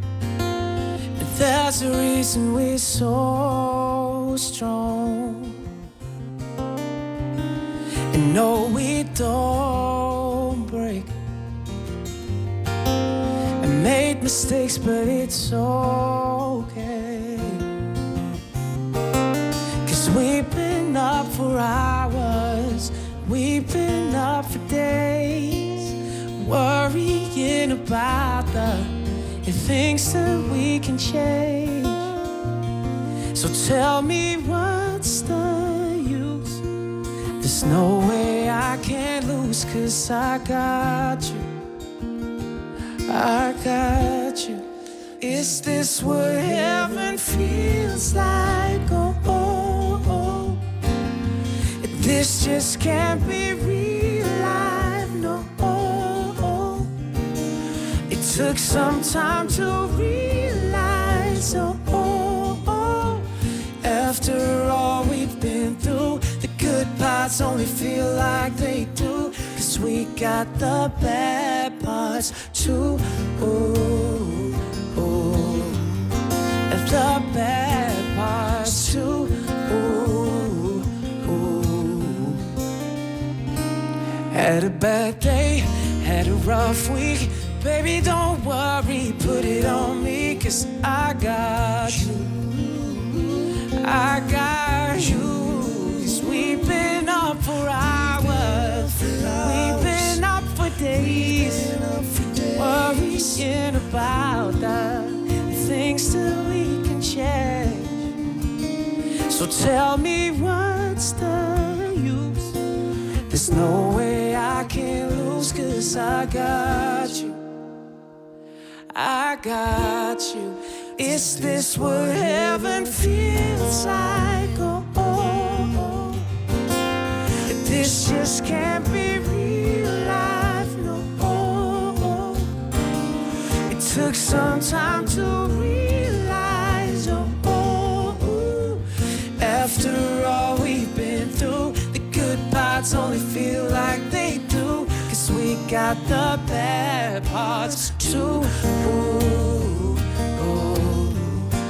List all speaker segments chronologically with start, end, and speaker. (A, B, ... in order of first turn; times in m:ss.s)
0:01.2-0:05.6 A
0:08.1-0:11.1 A
0:13.6-0:17.6 A
0:19.8-0:32.1 A
0:33.4-0:36.6 A
0:37.4-0:41.4 A
0:43.1-0:44.6 A
0:45.2-0:50.6 A
0:51.8-0:56.9 A
0:58.1-1:03.3 A
1:03.8-1:15.9 A
1:16.7-1:22.4 A
1:24.3-1:41.9 A
1:42.5-1:48.1 A
1:49.3-1:52.6 A
1:53.3-1:57.4 A
1:58.9-2:06.3 A
2:07.6-2:12.6 A
2:13.7-2:18.9 A
2:19.4-2:31.5 A